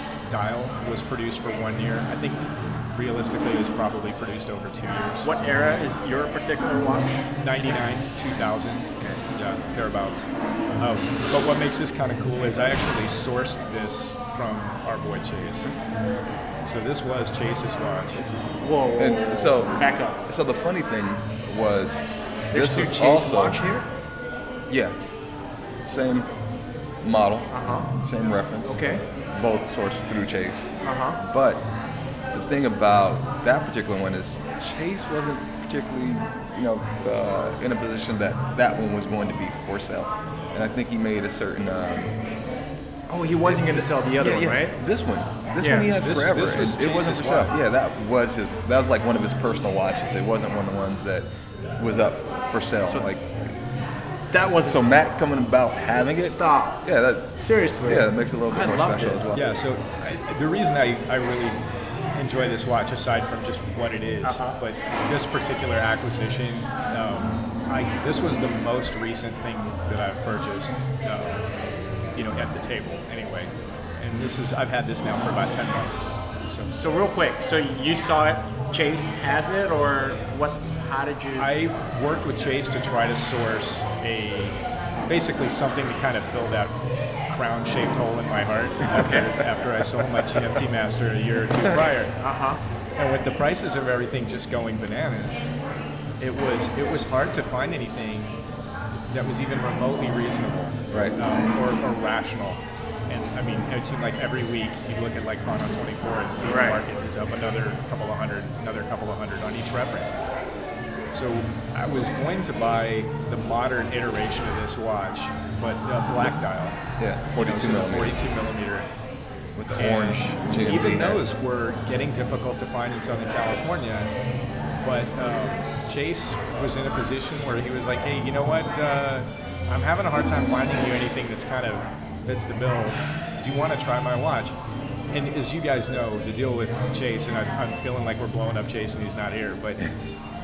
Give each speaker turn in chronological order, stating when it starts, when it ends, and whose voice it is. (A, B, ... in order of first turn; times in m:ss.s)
0:00.2-0:05.3 A
0:05.2-0:07.3 B
0:07.4-0:10.3 A
0:10.8-0:15.7 A
0:16.6-0:18.2 A
0:18.6-0:20.2 B
0:19.0-0:23.6 C
0:22.5-0:23.8 B
0:24.7-0:24.9 C
0:25.8-0:26.3 C
0:27.0-0:31.6 C
0:27.5-0:27.9 B
0:28.7-0:29.0 B
0:30.8-0:31.2 B
0:32.3-0:42.1 C
0:43.1-0:44.8 B
0:43.5-0:53.5 C
0:45.6-0:45.9 B
0:45.9-0:47.5 A
0:54.3-0:54.8 B
0:54.6-0:59.5 C
0:56.1-0:56.8 B
0:57.4-0:59.3 B
0:59.3-1:01.6 A
1:02.1-1:11.4 A
1:04.2-1:04.6 B
1:12.1-1:16.7 A
1:16.7-1:21.5 B
1:21.4-1:26.8 A
1:27.3-1:32.1 A
1:28.9-1:29.3 B
1:32.1-1:32.6 B
1:33.0-1:35.5 A
1:36.2-1:38.4 A
1:39.1-1:50.1 A
1:40.9-1:41.2 C
1:46.5-1:46.8 B
1:51.1-1:56.8 A
1:57.0-1:58.2 C
1:57.4-1:58.9 A
1:59.6-2:01.2 C
1:59.8-2:04.1 A
2:04.8-2:14.5 A
2:15.1-2:19.9 A